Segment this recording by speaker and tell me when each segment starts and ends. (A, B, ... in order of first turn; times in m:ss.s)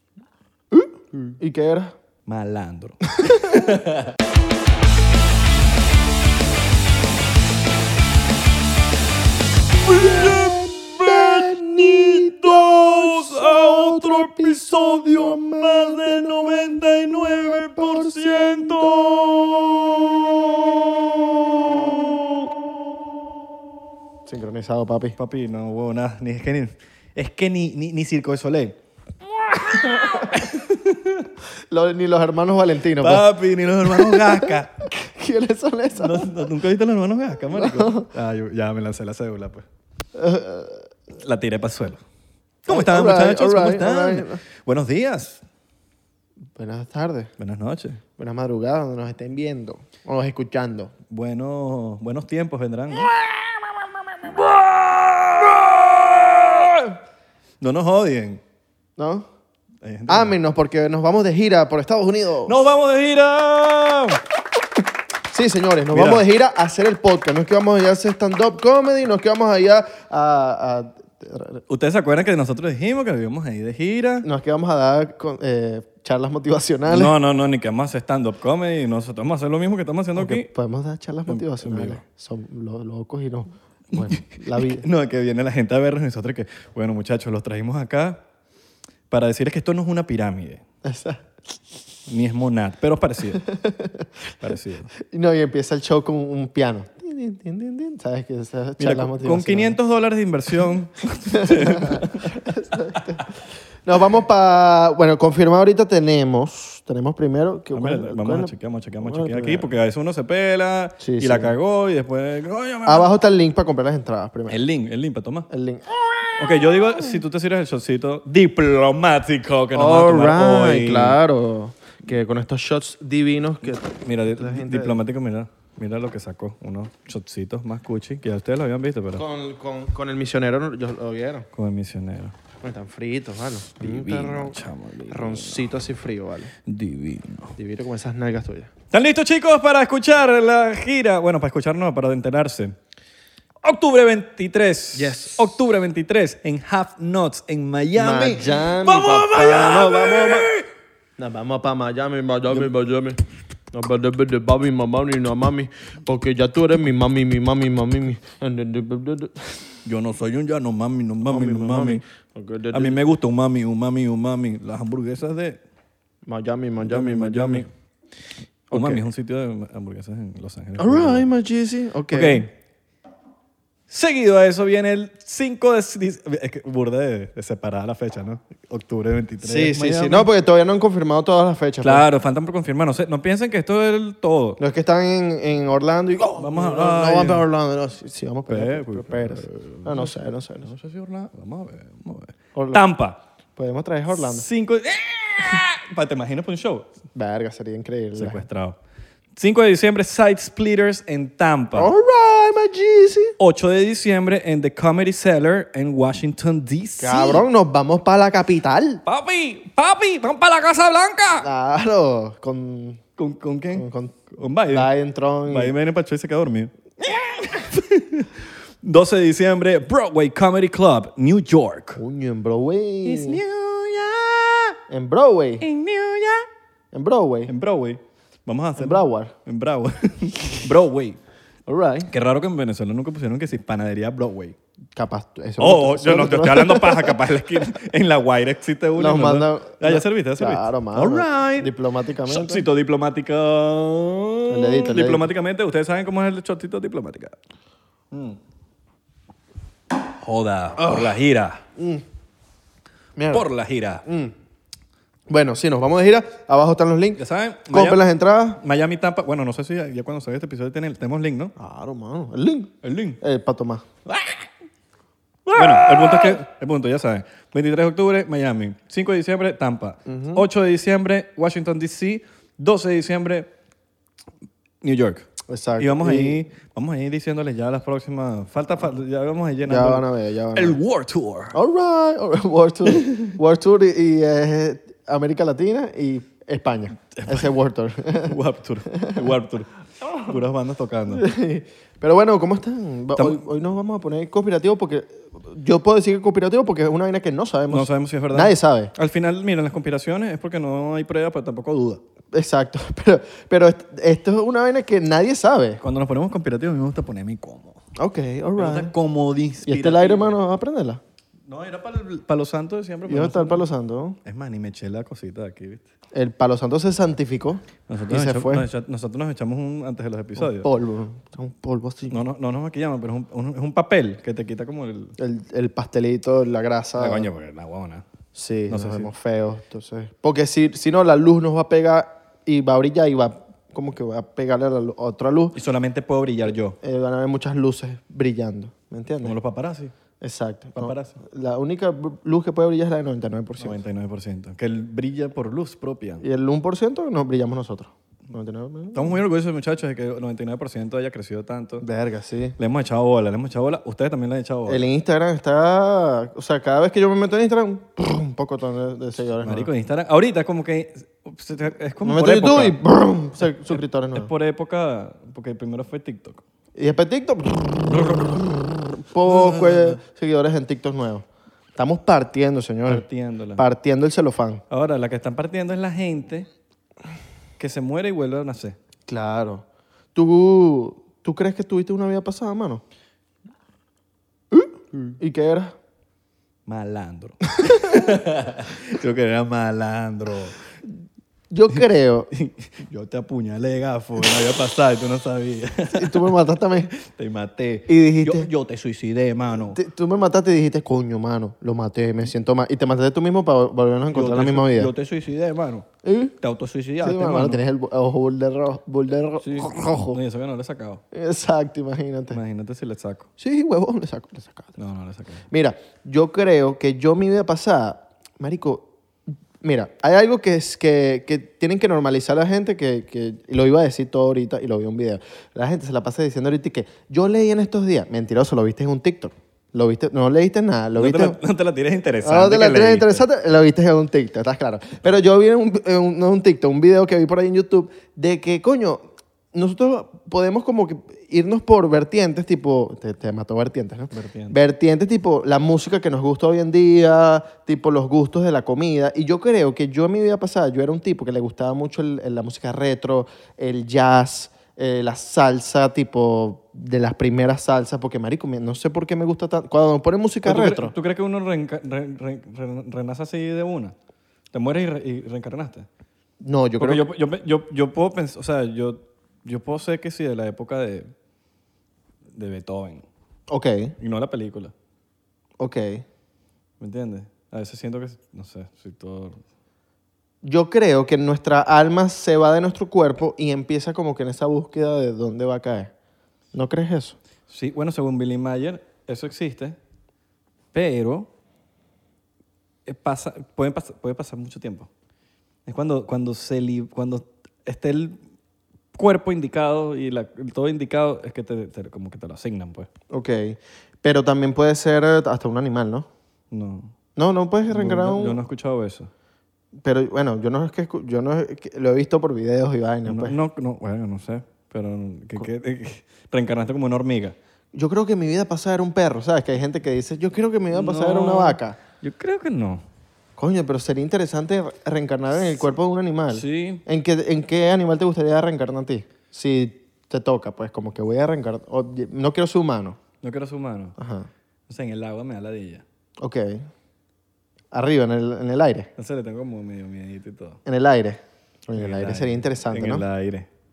0:00.7-0:02.0 A
0:02.2-0:04.2 B
0:03.2-0:03.6 A
0:09.9-0:22.4 B
0:09.9-0:19.4 A
0:24.3-0:25.2 A
0:25.2-0:28.8 B
0:29.5-0:31.3 B
0:30.0-0:30.2 A
0:31.7-0:33.2 A
0:33.0-0:34.9 B
0:33.8-0:36.4 A
0:35.9-0:39.6 B
0:37.5-0:38.1 A
0:40.1-0:40.8 A
0:41.1-0:42.0 B
0:42.6-0:45.4 B
0:42.7-0:44.4 A
0:46.6-0:47.3 A
0:47.4-0:48.0 B
0:48.2-0:50.9 A
0:51.1-0:57.0 B
0:57.6-0:58.4 B
0:59.0-0:59.2 A
0:59.8-1:00.3 B
1:00.1-1:02.6 A
1:02.4-1:04.2 B
1:05.3-1:11.6 A
1:05.9-1:06.2 B
1:11.7-1:14.2 B
1:14.2-1:17.1 A
1:16.9-1:20.5 B
1:20.1-1:24.8 A
1:21.3-1:22.0 B
1:23.9-1:28.2 B
1:29.1-1:30.6 B
1:30.8-1:31.2 A
1:32.1-1:33.4 B
1:33.5-1:34.1 A
1:34.4-1:34.9 B
1:35.0-1:39.8 A
1:38.8-1:42.4 B
1:41.3-1:43.3 A
1:43.8-1:49.7 A
1:47.7-1:53.1 B
1:51.0-1:51.5 A
1:52.8-1:54.6 A
1:54.5-1:55.5 B
1:55.5-1:56.4 A
1:56.4-2:01.2 B
1:59.7-2:05.0 A
2:03.6-2:09.2 B
2:09.1-2:11.5 A
2:11.5-2:12.4 B
2:12.6-2:14.6 A
2:13.8-2:15.7 B
2:15.1-2:16.5 A
2:16.6-2:17.6 B
2:17.6-2:18.7 A
2:18.9-2:22.8 B
2:23.6-2:30.6 B
2:24.9-2:25.6 A
2:27.9-2:30.5 A
2:31.2-2:33.2 A
2:33.7-2:39.8 A
2:39.8-2:42.0 B
2:41.2-2:43.0 A
2:42.7-2:45.6 B
2:46.3-2:47.7 A
2:46.8-2:47.7 B
2:48.7-2:49.0 A
2:48.7-2:51.3 B
2:50.8-2:52.5 A
2:52.1-2:52.5 B
2:53.9-3:00.3 B
2:59.4-3:02.0 A
3:01.8-3:04.6 B
3:04.6-3:10.7 A
3:06.3-3:07.4 B
3:08.5-3:13.2 B
3:12.5-3:12.8 A
3:13.6-3:14.4 A
3:14.1-3:16.9 B
3:17.1-3:18.4 A
3:18.1-3:18.8 B
3:19.3-3:21.9 B
3:21.7-3:23.3 A
3:23.4-3:27.4 B
3:27.0-3:29.0 A
3:29.0-3:31.5 B
3:31.4-3:33.0 A
3:33.2-3:34.9 B
3:33.7-3:34.2 A
3:34.7-3:35.7 A
3:35.4-3:42.0 B
3:42.0-3:43.4 A
3:43.0-3:44.8 B
3:44.9-3:45.6 A
3:45.6-3:46.4 B
3:46.9-3:47.5 A
3:47.5-3:51.2 B
3:48.8-3:49.3 A
3:51.7-3:52.1 A
3:52.1-3:54.6 B
3:55.0-3:57.2 A
3:55.6-4:01.7 B
3:59.0-4:02.6 A
4:02.3-4:07.4 B
4:04.5-4:05.3 A
4:08.1-4:08.4 B
4:10.1-4:11.6 B
4:10.8-4:11.1 A
4:11.8-4:12.0 A
4:13.2-4:13.4 A
4:13.3-4:14.0 B
4:14.0-4:14.3 A
4:15.3-4:18.6 A
4:17.2-4:18.0 B
4:18.6-4:21.5 B
4:21.6-4:23.8 A
4:22.8-4:23.2 B
4:24.0-4:24.5 B
4:25.5-4:26.3 A
4:25.5-4:33.5 B
4:30.0-4:30.4 A
4:34.8-4:35.3 B
4:35.5-4:36.4 A
4:35.8-4:41.6 B
4:39.7-4:40.8 A
4:41.5-4:48.4 A
4:42.9-4:43.2 B
4:47.1-4:47.5 B
4:48.2-4:51.2 B
4:48.9-4:49.2 A
4:51.1-4:58.9 A
4:53.1-4:53.4 B
4:57.7-5:02.0 B
5:02.3-5:05.8 A
5:05.8-5:07.8 B
5:08.0-5:08.9 A
5:08.6-5:10.3 B
5:09.6-5:11.0 A
5:11.5-5:13.6 B
5:13.1-5:14.2 A
5:14.2-5:15.8 B
5:16.1-5:18.6 A
5:17.9-5:20.7 B
5:20.4-5:22.2 A
5:22.1-5:25.2 B
5:25.2-5:27.3 A
5:27.0-5:28.0 B
5:28.3-5:35.6 A
5:28.7-5:29.1 B
5:35.5-5:36.8 B
5:36.8-5:39.4 A
5:39.2-5:39.9 B
5:40.2-5:43.8 A
5:40.8-5:41.2 B
5:43.6-5:46.2 B
5:46.2-5:49.2 A
5:48.9-5:51.8 B
5:51.8-5:52.6 A
5:52.6-5:54.8 B
5:54.7-5:59.7 A
5:59.4-6:02.8 B
6:02.0-6:04.3 A
6:04.1-6:06.4 B
6:06.8-6:11.2 A
6:07.8-6:08.4 B
6:09.2-6:10.0 B
6:11.8-6:13.0 A
6:12.8-6:13.6 B
6:13.6-6:14.6 A
6:14.7-6:16.5 B
6:17.6-6:18.8 B
6:19.1-6:22.8 A
6:24.5-6:25.8 A
6:26.6-6:30.6 B
6:27.6-6:28.0 A
6:31.5-6:32.3 A
6:32.3-6:36.3 B
6:35.9-6:36.9 A
6:36.9-6:39.8 B
6:37.9-6:38.5 A
6:39.6-6:44.9 A
6:44.1-6:45.9 B
6:46.0-6:46.3 A
6:46.4-6:47.6 B
6:47.0-6:50.2 A
6:49.4-6:51.0 B
6:51.1-6:52.4 A
6:52.3-6:53.3 B
6:53.4-6:54.7 A
6:54.8-6:55.4 B
6:55.5-6:58.8 A
6:59.6-7:11.4 A
7:11.0-7:13.2 B
7:12.2-7:40.9 A
7:24.1-7:24.6 B
7:40.4-7:43.9 B
7:44.5-7:45.9 B
7:46.4-7:47.1 A
7:46.8-7:51.1 B
7:52.3-7:53.0 B
7:53.5-7:53.9 A
7:54.0-7:54.7 B
7:55.6-7:56.0 A
7:56.8-7:59.4 B
8:00.4-8:05.9 A
8:06.5-8:07.2 A
8:07.5-8:09.8 B
8:10.7-8:11.3 B
8:12.8-8:14.9 B
8:15.6-8:18.2 B
8:18.9-8:22.9 B
8:23.1-8:26.1 A
8:26.5-8:26.9 B
8:27.2-8:28.4 A
8:27.7-8:29.1 B
8:29.8-8:33.4 A
8:33.0-8:37.4 B
8:37.7-8:41.8 A
8:40.7-8:42.8 B
8:43.4-8:53.0 A
8:46.3-8:46.8 B
8:53.2-8:54.0 B
8:54.0-8:54.3 A
8:54.7-8:55.8 B
8:56.2-8:56.7 A
8:57.7-8:58.9 A
8:59.0-9:00.6 B
9:00.6-9:03.0 A
9:01.8-9:03.5 B